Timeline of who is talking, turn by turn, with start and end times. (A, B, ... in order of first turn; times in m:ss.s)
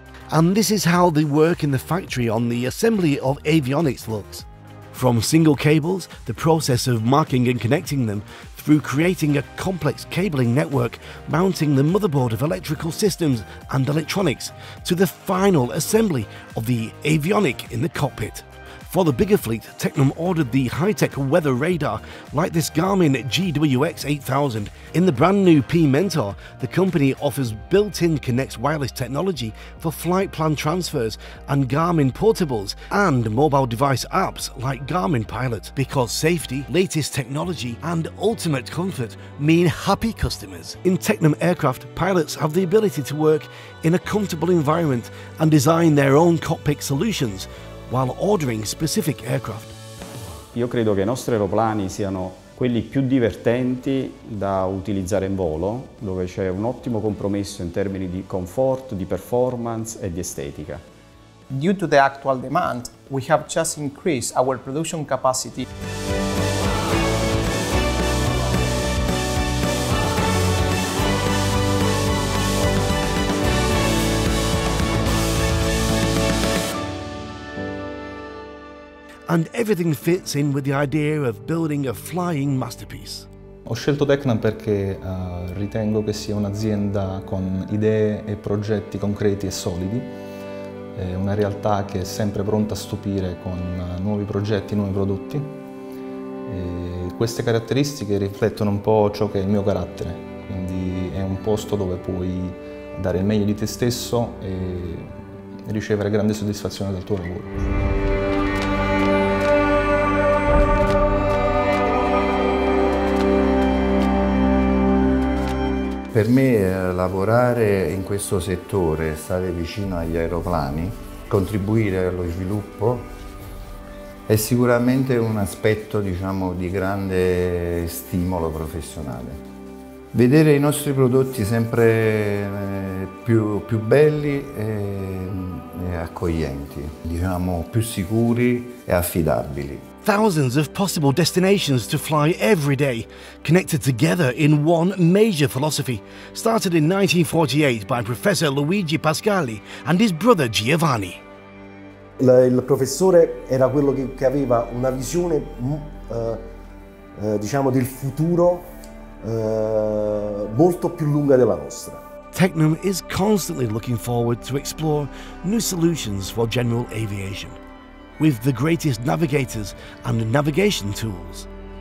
0:00.3-0:49.8 A
0:50.5-1:00.8 B
1:01.5-1:05.6 C
1:19.3-1:23.3 A
1:23.7-1:30.1 D
1:31.0-1:35.6 D
1:36.5-1:45.1 D
1:45.7-1:47.5 D
1:56.1-2:03.1 E
2:04.3-2:09.4 E
2:10.1-2:19.8 E
2:20.0-2:31.2 A
2:32.2-2:36.4 F
2:37.2-2:38.6 F
2:39.2-2:42.0 F
2:42.3-2:47.6 A
2:48.2-2:51.5 A